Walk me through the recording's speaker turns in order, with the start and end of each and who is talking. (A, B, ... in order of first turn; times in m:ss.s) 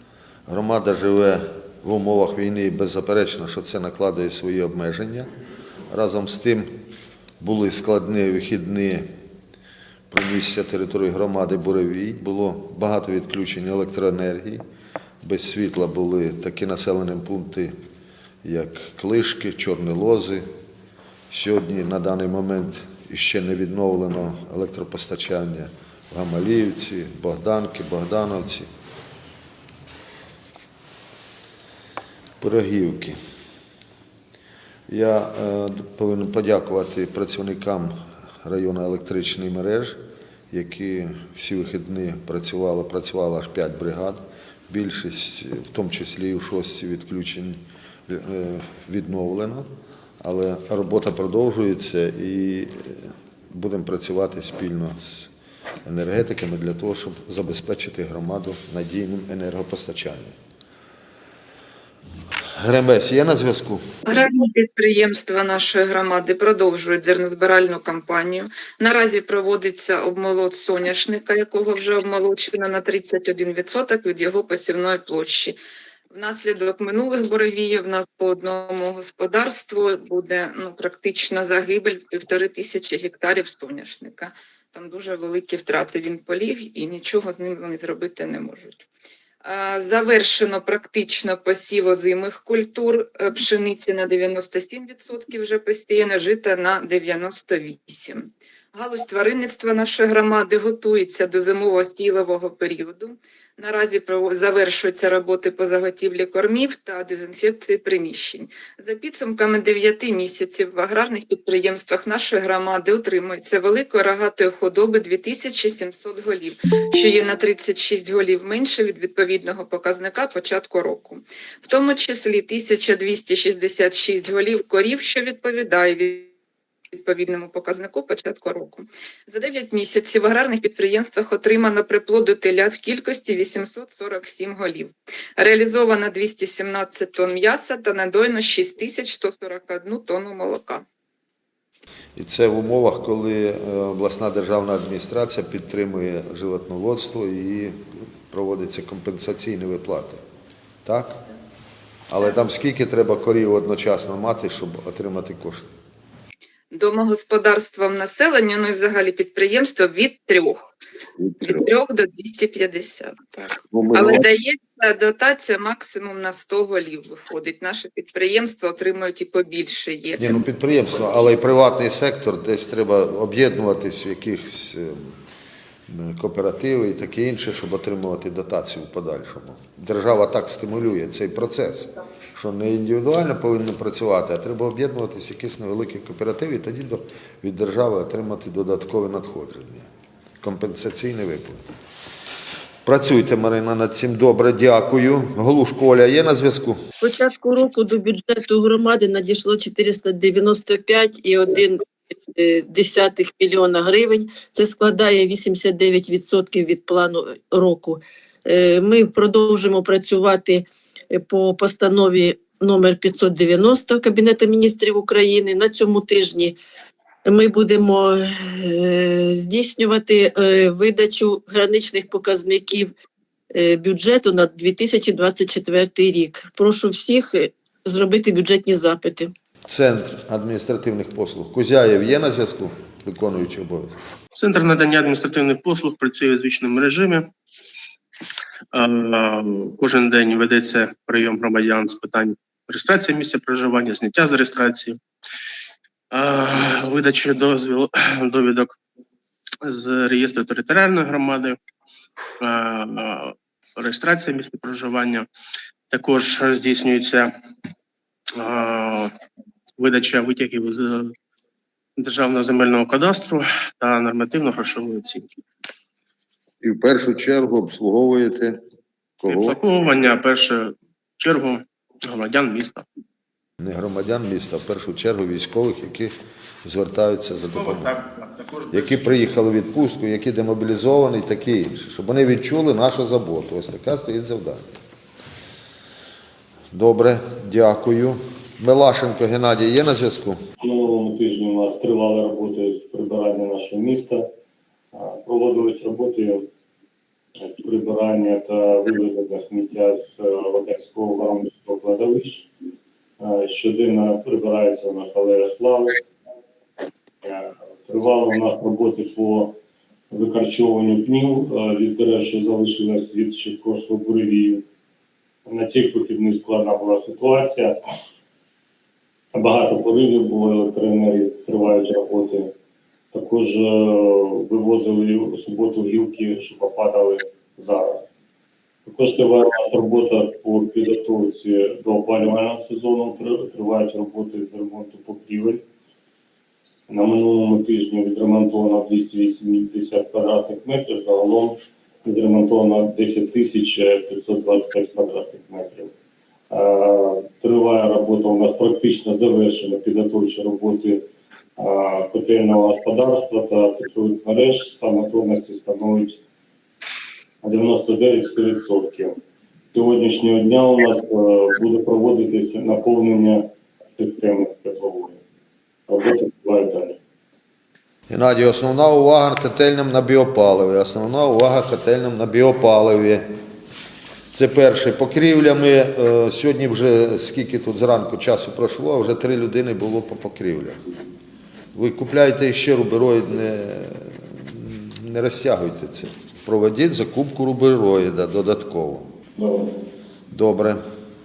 0:00.5-0:05.3 A
0:05.9-0:06.7 A
0:07.4-0:09.1 A
0:10.1-0:14.6 A
0:15.2-0:17.8 A
0:18.4-0:20.5 A
0:21.3-0:28.7 A
0:32.4-0:33.2 A
0:34.9-0:40.0 A
0:40.5-0:49.7 A
0:50.2-0:55.3 A
0:55.8-1:00.3 A
1:02.6-1:03.9 A
1:04.1-1:15.6 B
1:16.1-1:28.8 B
1:29.4-2:06.3 B
2:06.9-2:20.8 B
2:22.2-2:30.2 A
2:30.9-2:31.2 A
2:32.1-2:35.7 A
2:36.7-2:40.7 B
2:41.4-2:50.4 B
2:43.7-2:44.2 A
2:50.2-2:55.1 A
2:55.9-3:09.9 A
3:10.4-3:11.6 A
3:12.8-3:16.8 A
3:17.0-3:36.6 C
3:37.2-3:42.9 C
3:43.5-3:49.3 C
3:49.7-3:54.0 A
3:54.3-3:57.3 D
3:58.7-4:05.0 D
4:06.1-4:08.8 D
4:09.6-4:11.6 D
4:12.4-4:15.3 D
4:15.9-4:17.3 D
4:18.4-4:19.1 D
4:19.8-4:21.1 D
4:22.0-4:25.3 D
4:26.6-4:28.6 A
4:29.2-4:29.6 A
4:29.2-4:32.8 D
4:33.6-4:38.0 A
4:38.0-4:38.7 D
4:38.7-4:44.8 A
4:46.7-4:50.4 A
4:50.6-4:54.3 E
4:54.9-4:56.5 E
4:57.4-5:02.5 E
5:03.2-5:06.0 E
5:07.2-5:09.6 E
5:10.1-5:14.6 E
5:15.4-5:17.8 E
5:19.3-5:22.5 E
5:23.1-5:28.1 E
5:28.9-5:35.6 E
5:36.9-5:45.9 E
5:46.5-5:51.0 E
5:51.6-5:56.2 E
5:57.4-5:59.2 E
5:59.7-6:05.2 E
6:05.9-6:07.0 E
6:08.1-6:13.3 A
6:14.3-6:20.8 A
6:21.7-6:29.1 A
6:30.3-6:30.8 A